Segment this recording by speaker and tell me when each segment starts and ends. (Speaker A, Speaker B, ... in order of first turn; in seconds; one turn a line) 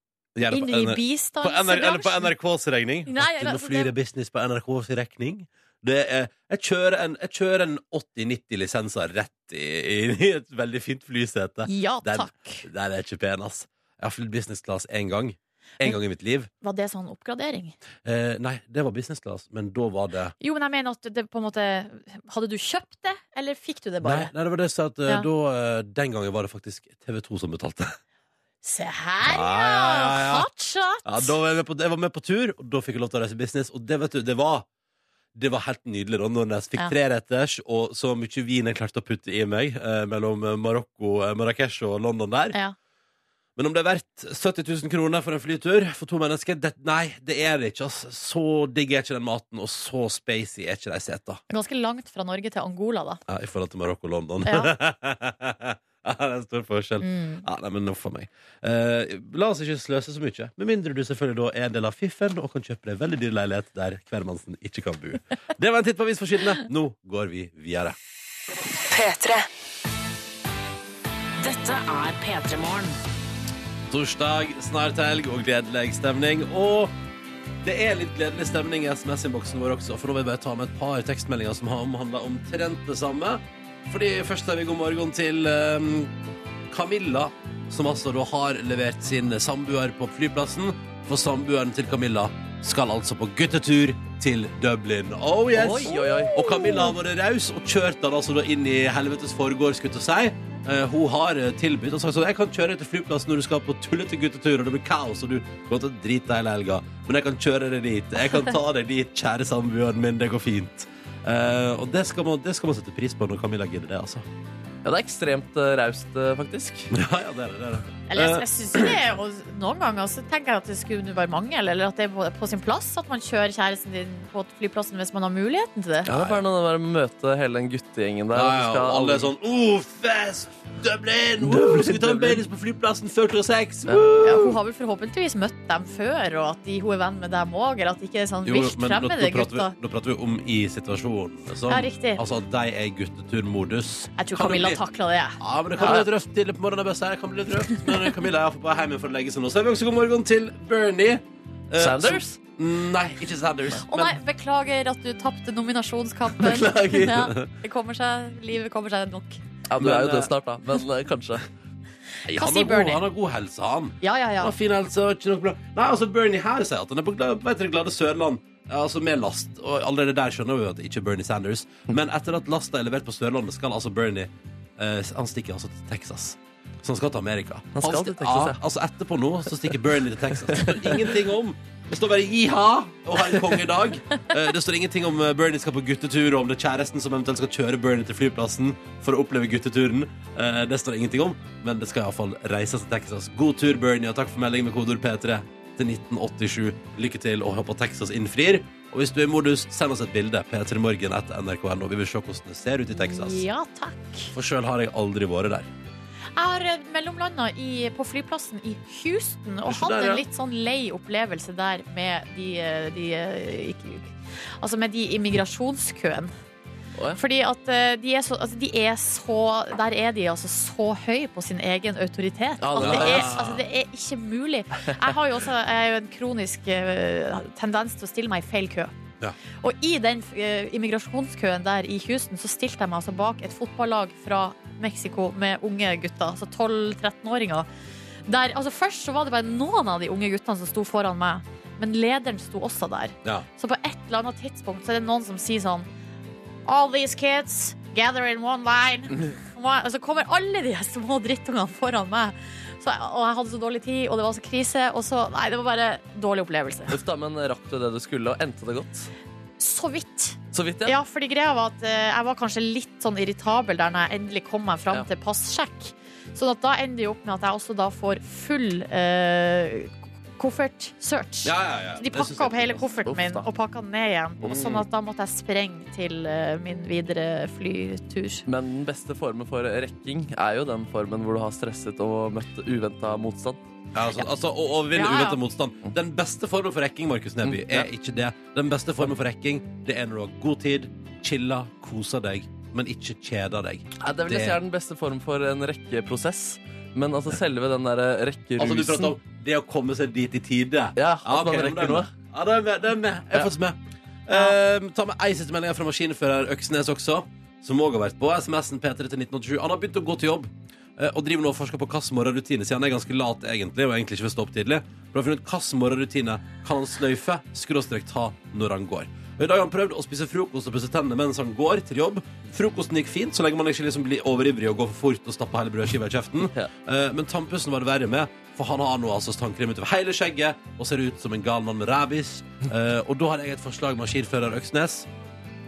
Speaker A: 0.3-16.5
Speaker B: 0.5-2.3
Speaker B: 3.1-3.9
Speaker B: 11.7-12.7
Speaker B: 16.6-17.8
Speaker A: 18.0-20.3
Speaker B: 20.4-24.3
Speaker A: 24.0-28.0
Speaker B: 28.6-31.3
Speaker A: 29.2-30.5
Speaker A: 31.0-34.7
Speaker A: 35.4-42.6
Speaker A: 43.6-51.4
Speaker B: 51.5-53.2
Speaker A: 53.3-68.0
Speaker B: 54.5-54.7
Speaker B: 57.0-57.5
Speaker C: 68.8-69.5
Speaker C: 71.4-73.0
Speaker A: 73.9-77.0
Speaker A: 77.6-86.1
Speaker A: 86.7-114.2
Speaker D: 95.5-96.8
Speaker D: 114.8-116.9
Speaker A: 116.9-119.0
Speaker B: 118.1-126.1
Speaker A: 126.0-126.4
Speaker D: 126.1-129.3
Speaker A: 128.3-134.6
Speaker D: 131.4-132.4
Speaker B: 134.2-139.8
Speaker A: 138.4-144.8
Speaker B: 141.7-142.2
Speaker B: 144.2-146.0
Speaker A: 145.4-154.2
Speaker D: 145.8-146.1
Speaker D: 151.8-152.4
Speaker B: 153.9-159.4
Speaker D: 156.4-157.3
Speaker A: 157.0-157.5
Speaker D: 159.7-161.5
Speaker A: 159.8-160.3
Speaker A: 162.3-203.4
Speaker B: 162.3-163.0
Speaker B: 164.0-164.5
Speaker D: 177.8-178.6
Speaker D: 180.5-180.8
Speaker B: 202.9-204.3
Speaker A: 204.3-205.7
Speaker B: 206.4-216.3
Speaker A: 209.7-210.2
Speaker B: 217.2-228.9
Speaker D: 222.6-223.4
Speaker A: 222.8-223.6
Speaker B: 229.6-237.7
Speaker B: 238.3-245.9
Speaker B: 246.7-257.0
Speaker D: 256.9-259.1
Speaker B: 259.6-278.4
Speaker D: 260.5-261.0
Speaker A: 271.4-272.9
Speaker D: 273.1-273.4
Speaker D: 274.4-274.9
Speaker D: 278.5-283.7
Speaker A: 283.9-294.6
Speaker B: 284.9-285.4
Speaker D: 287.5-287.9
Speaker D: 294.0-299.2
Speaker A: 298.6-335.1
Speaker D: 301.0-302.1